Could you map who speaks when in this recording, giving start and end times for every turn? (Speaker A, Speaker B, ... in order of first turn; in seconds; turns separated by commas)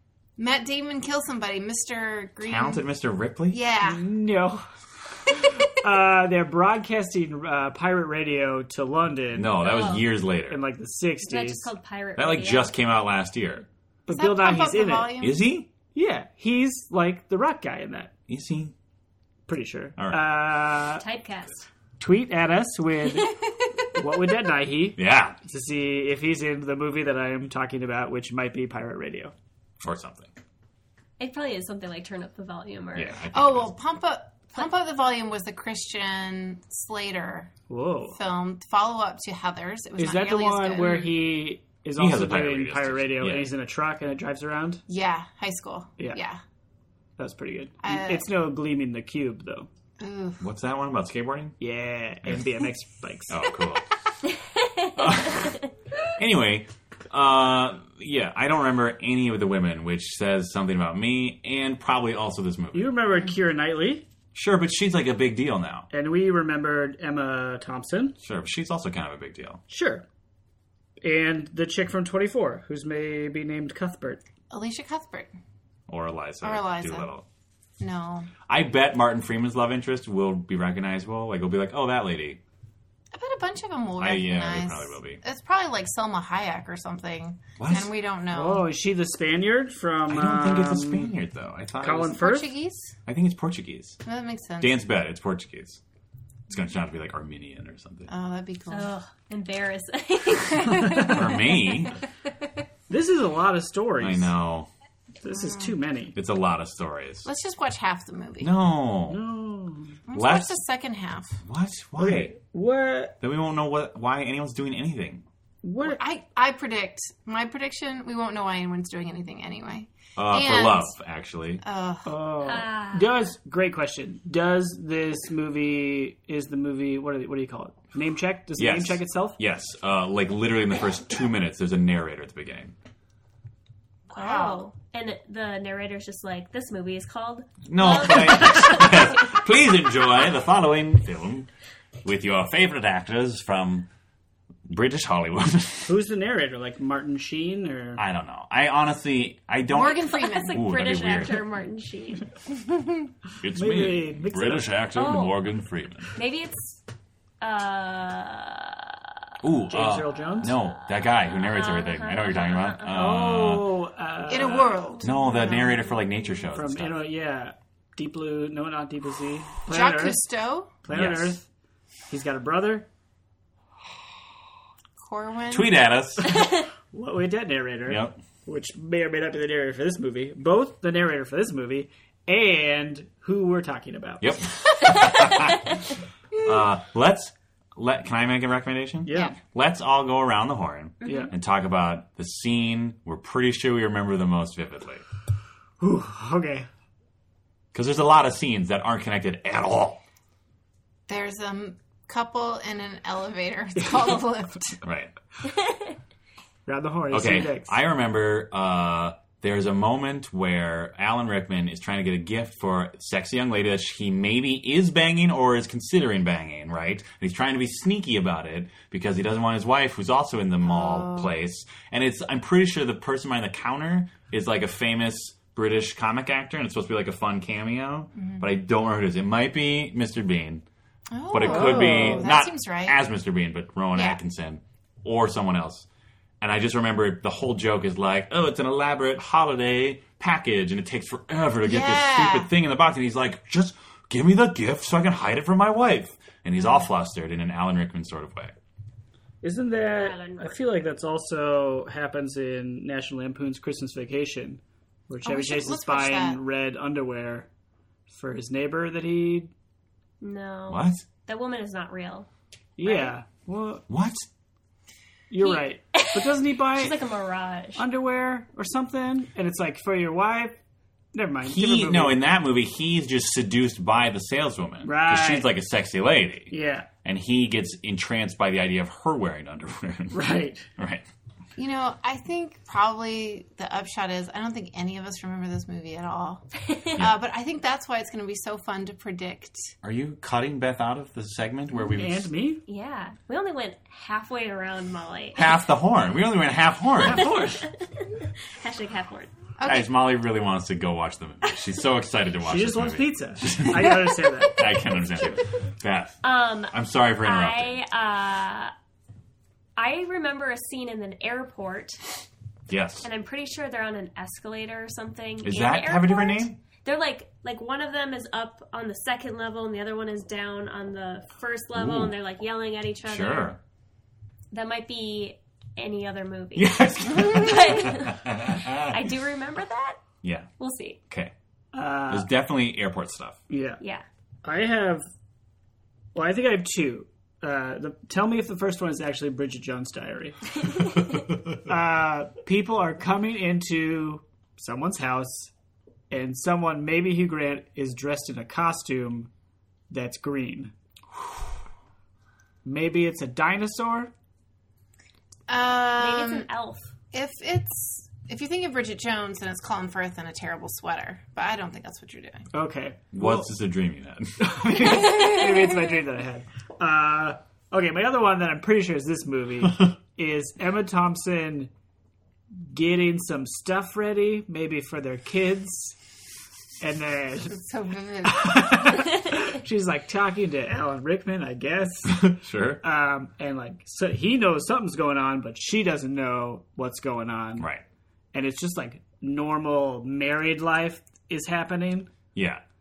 Speaker A: 0.4-2.8, Speaker B: 2.4-3.6, Speaker A: 3.5-4.0, Speaker C: 3.8-4.6, Speaker C: 5.3-9.5, Speaker B: 9.3-10.6, Speaker D: 9.6-10.1, Speaker C: 10.5-11.7, Speaker D: 11.2-12.7, Speaker B: 12.2-13.7, Speaker C: 14.1-15.2, Speaker A: 14.1-15.4, Speaker B: 15.2-15.7, Speaker C: 15.9-18.1, Speaker B: 18.3-18.7, Speaker C: 19.5-21.0, Speaker B: 20.0-20.2, Speaker D: 20.9-21.7, Speaker C: 22.0-23.4, Speaker C: 23.9-29.3, Speaker B: 24.9-25.4, Speaker B: 29.8-30.3, Speaker D: 31.2-33.2, Speaker B: 32.9-33.7, Speaker A: 33.3-37.5, Speaker C: 37.7-38.2, Speaker A: 38.1-41.0, Speaker C: 40.0-44.8, Speaker D: 40.8-41.1, Speaker B: 42.0-43.5, Speaker A: 44.9-46.4, Speaker C: 47.2-49.7, Speaker A: 47.8-48.3, Speaker A: 50.0-50.4, Speaker B: 50.4-51.5, Speaker C: 51.6-53.4, Speaker B: 53.3-53.8, Speaker D: 54.4-55.7, Speaker B: 55.0-55.6, Speaker B: 56.1-63.0, Speaker C: 62.7-64.0, Speaker B: 64.3-65.9, Speaker C: 65.9-68.2, Speaker B: 68.2-69.6, Speaker C: 69.7-70.0, Speaker C: 71.0-74.2, Speaker A: 74.5-75.3, Speaker B: 75.9-77.2, Speaker A: 76.4-77.1, Speaker A: 77.8-78.3, Speaker B: 78.5-82.4, Speaker A: 83.1-88.7, Speaker B: 84.0-85.2, Speaker B: 87.6-87.9, Speaker C: 88.3-91.1, Speaker B: 90.1-92.2, Speaker C: 91.8-92.5, Speaker A: 92.1-92.9, Speaker B: 93.0-94.0, Speaker A: 94.0-94.8, Speaker B: 94.6-95.8, Speaker B: 96.5-98.1, Speaker A: 98.1-98.9, Speaker D: 98.7-101.1, Speaker A: 100.6-101.2, Speaker C: 100.8-101.1, Speaker B: 101.0-102.0, Speaker C: 102.9-104.3, Speaker B: 104.0-104.7, Speaker C: 105.2-106.2, Speaker A: 105.3-105.7, Speaker B: 106.1-107.3, Speaker A: 107.2-108.5, Speaker B: 108.4-109.2, Speaker C: 109.1-110.0, Speaker A: 110.1-111.4, Speaker B: 110.1-110.6, Speaker B: 111.4-112.3, Speaker C: 112.0-113.1, Speaker B: 113.2-115.2, Speaker C: 115.6-116.0, Speaker A: 115.8-120.9, Speaker B: 120.2-121.6, Speaker A: 121.6-122.2, Speaker C: 122.0-129.4, Speaker D: 122.4-123.3, Speaker B: 128.6-132.7, Speaker A: 134.1-134.7, Speaker D: 134.1-139.3, Speaker B: 137.7-141.5, Speaker B: 142.0-143.9, Speaker B: 144.7-146.0, Speaker C: 145.8-148.0, Speaker B: 148.0-151.4, Speaker A: 149.7-150.6, Speaker D: 149.8-152.3, Speaker A: 152.6-153.1, Speaker B: 153.4-156.1, Speaker C: 153.5-154.7, Speaker D: 154.9-155.4, Speaker D: 156.1-156.8, Speaker D: 157.4-159.0, Speaker B: 159.4-163.7, Speaker C: 159.7-160.6, Speaker D: 160.8-163.2, Speaker C: 162.9-164.9, Speaker A: 164.2-166.0, Speaker B: 165.0-167.0, Speaker C: 166.5-170.2, Speaker A: 169.7-170.7, Speaker C: 170.8-171.4, Speaker B: 170.9-171.4, Speaker C: 172.1-172.9, Speaker A: 175.0-175.7, Speaker B: 175.5-176.4, Speaker D: 176.3-176.6, Speaker C: 176.9-184.4, Speaker B: 177.8-178.2, Speaker B: 184.2-185.8, Speaker B: 186.4-195.0, Speaker C: 189.0-189.3, Speaker D: 191.0-191.3, Speaker C: 191.0-191.3, Speaker C: 195.8-196.7, Speaker B: 197.7-200.0, Speaker A: 201.1-204.8, Speaker B: 204.8-205.1, Speaker D: 205.4-205.9, Speaker C: 206.7-207.8, Speaker B: 207.1-230.6, Speaker A: 220.6-221.3, Speaker A: 228.2-228.4, Speaker A: 231.1-233.0, Speaker B: 231.3-235.9, Speaker C: 231.4-232.2, Speaker A: 233.9-234.2, Speaker B: 236.4-248.5, Speaker A: 241.6-242.5, Speaker C: 249.4-257.5, Speaker D: 249.9-250.6, Speaker A: 255.2-256.4, Speaker C: 258.1-259.5, Speaker D: 260.2-262.3, Speaker B: 260.7-261.0, Speaker C: 262.8-263.8, Speaker B: 263.9-264.3, Speaker C: 265.3-267.0, Speaker D: 265.4-267.8, Speaker C: 267.8-270.6, Speaker C: 271.1-272.2, Speaker B: 271.4-281.0, Speaker C: 274.8-275.5, Speaker C: 276.5-276.9, Speaker C: 280.1-280.6, Speaker A: 281.6-289.7, Speaker B: 289.8-292.3, Speaker C: 291.9-292.6, Speaker D: 292.7-295.5, Speaker B: 295.3-297.3, Speaker C: 297.0-297.7, Speaker D: 297.2-299.3, Speaker A: 299.6-299.9, Speaker B: 299.6-306.2, Speaker C: 302.4-304.6, Speaker D: 306.2-308.7, Speaker B: 306.7-307.8, Speaker D: 309.8-312.0, Speaker B: 312.7-313.1, Speaker D: 313.0-323.6, Speaker B: 315.4-316.6, Speaker B: 321.7-322.1, Speaker B: 323.0-323.6, Speaker D: 324.5-330.0, Speaker B: 326.5-328.9, Speaker B: 330.2-330.5, Speaker D: 330.6-331.0, Speaker C: 331.7-332.3, Speaker B: 332.1-333.4, Speaker C: 333.5-333.8, Speaker D: 333.8-334.0, Speaker C: 334.4-335.0, Speaker C: 336.1-345.5, Speaker C: 346.1-349.3, Speaker C: 349.9-350.7, Speaker C: 352.6-354.1, Speaker A: 355.5-356.5, Speaker D: 356.0-356.9, Speaker A: 357.1-362.5, Speaker C: 362.5-363.4, Speaker B: 363.1-364.5, Speaker C: 364.4-371.7, Speaker C: 372.6-375.9, Speaker C: 376.8-377.6, Speaker A: 377.5-378.8, Speaker C: 378.2-387.7, Speaker B: 382.1-382.8, Speaker B: 387.6-387.8, Speaker C: 388.3-392.1, Speaker B: 392.3-392.6